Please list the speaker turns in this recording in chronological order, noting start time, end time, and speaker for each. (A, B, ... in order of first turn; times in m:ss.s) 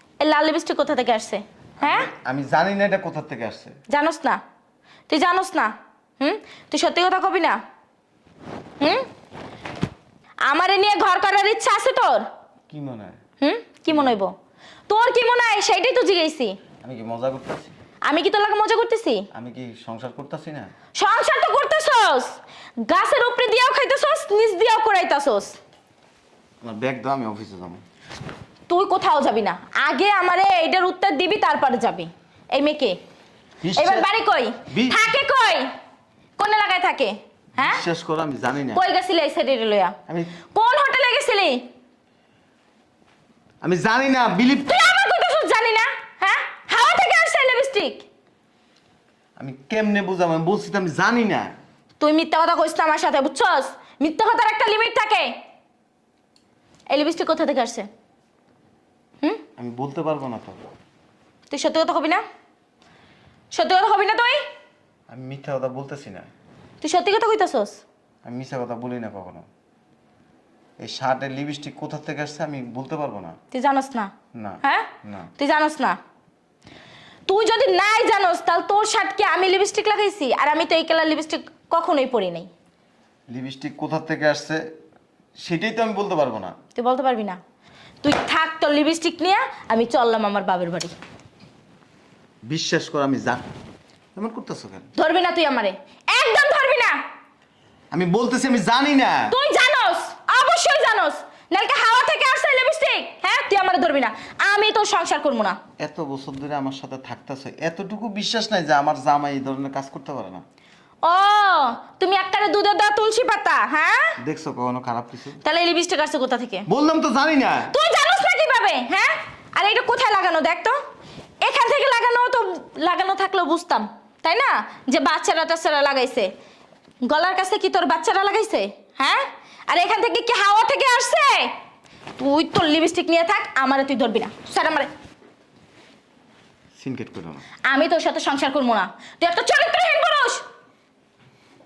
0:00.2-0:02.1 A
0:01.8-0:03.8 B
0:03.9-0:04.4 A
0:05.1-0:07.6 A
0:08.8-0:09.1 A
0:10.5-0:12.3 A
0:12.7-0:13.2 B
0:13.4-0:14.3 A
0:13.9-0:14.2 B
0:14.9-0:16.6 A
0:16.8-0:17.8 B
0:18.1-0:19.2 A
0:19.3-0:20.7 B
0:21.0-0:25.6 A
0:26.6-0:27.8 B
0:28.7-0:33.0 A
0:33.6-0:34.1 B
0:33.7-0:35.7 A
0:34.6-0:35.1 B
0:36.4-0:37.8 A
0:37.6-0:38.8 B
0:38.7-0:41.6 A
0:40.1-0:40.3 B
0:43.6-0:44.8 B
0:44.6-0:48.1 A
0:49.4-0:51.6 B
0:52.0-0:55.4 A
0:56.9-0:57.9 A
0:59.6-1:00.6 B
1:01.5-1:02.2 A
1:03.5-1:04.5 A
1:05.1-1:06.3 B
1:06.8-1:07.8 A
1:08.2-1:09.5 B
1:10.8-1:13.4 B
1:13.5-1:14.1 A
1:14.3-1:15.3 B
1:14.6-1:16.0 A
1:17.3-1:22.5 A
1:23.3-1:24.7 B
1:25.4-1:26.6 B
1:26.8-1:27.4 A
1:28.0-1:30.9 A
1:32.4-1:33.4 B
1:34.2-1:34.9 B
1:35.0-1:37.0 A
1:37.9-1:39.4 B
1:39.3-1:45.6 A
1:45.8-1:50.4 B
1:51.0-1:54.2 A
1:54.2-1:55.4 B
1:55.4-1:56.7 A
1:56.7-1:57.7 B
1:57.7-2:00.8 A
2:01.4-2:06.3 A
2:07.0-2:11.6 A
2:12.2-2:14.9 A
2:16.8-2:17.4 B
2:17.7-2:20.4 A